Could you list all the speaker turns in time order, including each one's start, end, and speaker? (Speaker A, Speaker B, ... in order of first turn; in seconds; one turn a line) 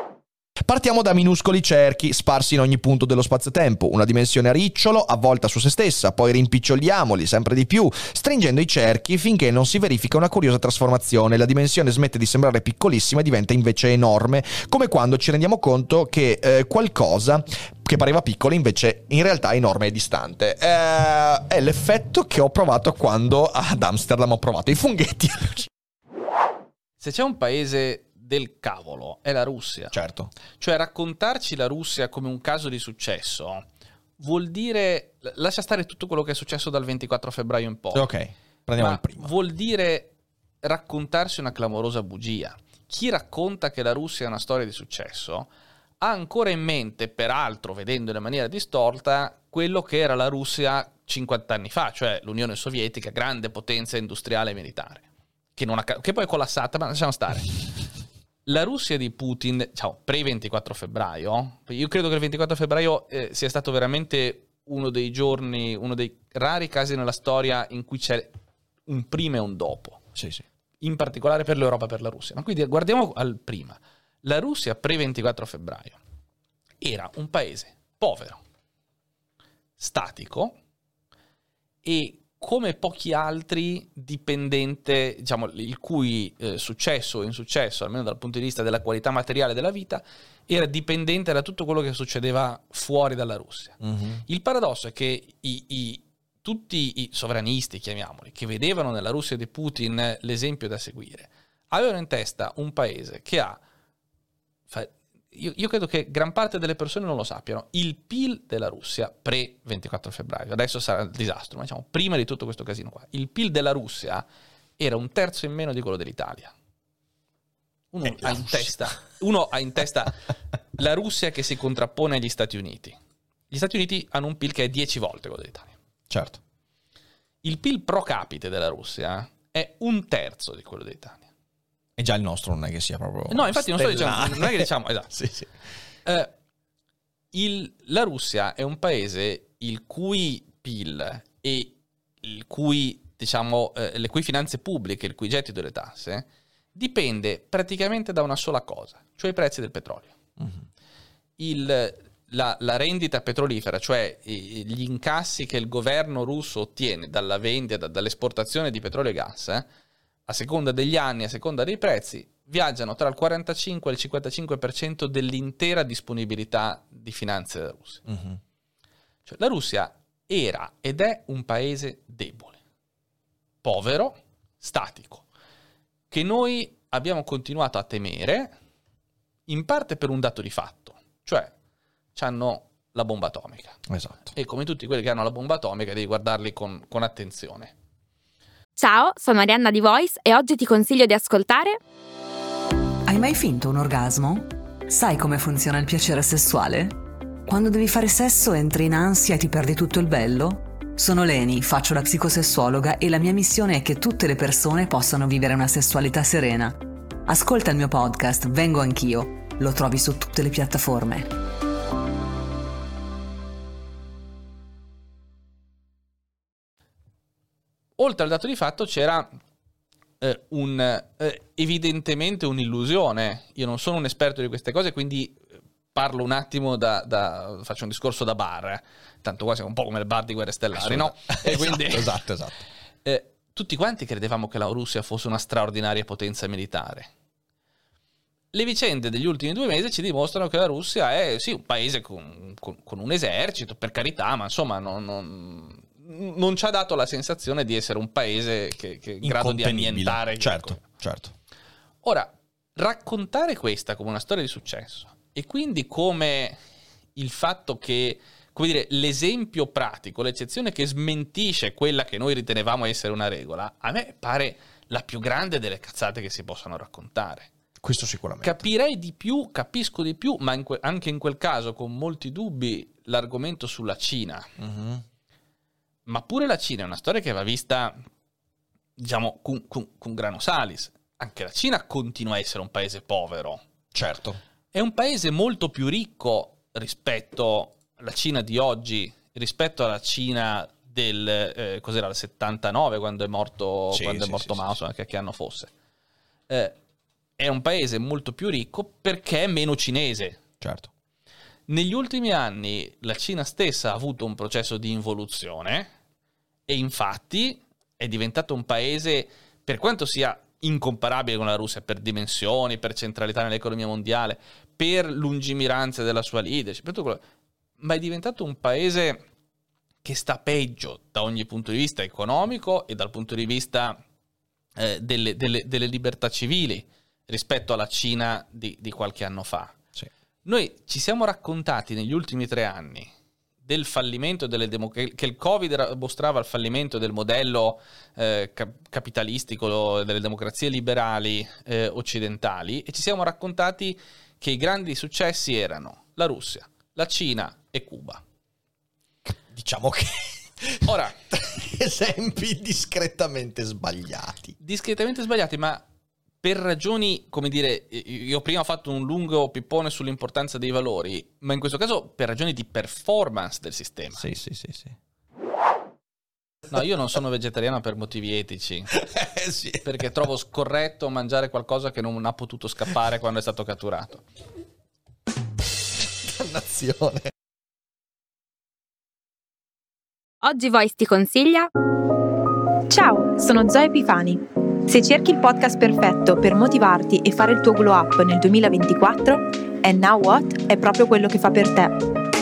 Speaker A: 0.7-25.7
Speaker B: 27.0-29.9
Speaker A: 29.9-30.3
Speaker B: 30.6-33.6
Speaker B: 34.2-38.1
Speaker A: 37.9-39.3
Speaker B: 38.8-40.1
Speaker B: 40.6-45.5
Speaker B: 46.0-57.7
Speaker B: 58.5-68.3
Speaker B: 68.9-70.0
Speaker A: 70.2-70.4
Speaker B: 70.8-76.0
Speaker B: 76.8-78.4
Speaker B: 79.8-80.5
Speaker B: 81.8-103.6
Speaker A: 93.8-94.2
Speaker B: 104.7-114.2
Speaker B: 114.8-116.5
Speaker B: 117.9-120.2
Speaker A: 118.1-118.6
Speaker B: 120.8-123.0
Speaker B: 123.5-125.7
Speaker A: 126.1-126.4
Speaker B: 127.4-131.2
Speaker A: 132.0-135.5
Speaker B: 133.3-135.1
Speaker B: 137.3-150.1
Speaker B: 151.4-159.7
Speaker B: 160.3-168.0
Speaker A: 168.1-168.4
Speaker B: 169.2-172.6
Speaker B: 173.6-175.2
Speaker B: 176.1-178.5
Speaker B: 179.5-181.5
Speaker B: 182.1-183.8
Speaker A: 183.9-184.3
Speaker B: 184.3-187.7
Speaker C: 188.8-191.8
Speaker D: 193.1-211.3
Speaker B: 218.0-219.3
Speaker B: 220.2-225.4
Speaker B: 225.9-232.2
Speaker A: 230.7-232.6
Speaker B: 233.0-237.1
Speaker B: 238.5-250.9
Speaker A: 249.2-251.3
Speaker B: 252.0-256.6
Speaker B: 257.1-267.5
Speaker A: 267.8-268.6
Speaker B: 268.4-274.5
Speaker A: 274.6-275.0
Speaker B: 276.1-278.0
Speaker B: 279.0-283.6
Speaker A: 283.9-284.4
Speaker B: 284.7-295.7
Speaker A: 293.9-294.7
Speaker B: 296.5-296.8
Speaker B: 297.4-300.4
Speaker A: 300.6-300.9
Speaker B: 301.7-305.9
Speaker B: 306.7-317.2
Speaker B: 317.8-319.2
Speaker B: 320.0-324.0
Speaker B: 324.8-329.7
Speaker B: 330.4-333.1
Speaker B: 333.6-348.2
Speaker A: 349.2-354.6
Speaker B: 350.9-351.1
Speaker B: 354.6-355.8
Speaker B: 356.4-364.2
Speaker A: 364.1-364.9
Speaker B: 366.7-368.9
Speaker A: 368.9-369.9
Speaker B: 369.8-374.2
Speaker A: 376.2-377.3
Speaker C: 380.4-381.7
Speaker E: 382.9-391.9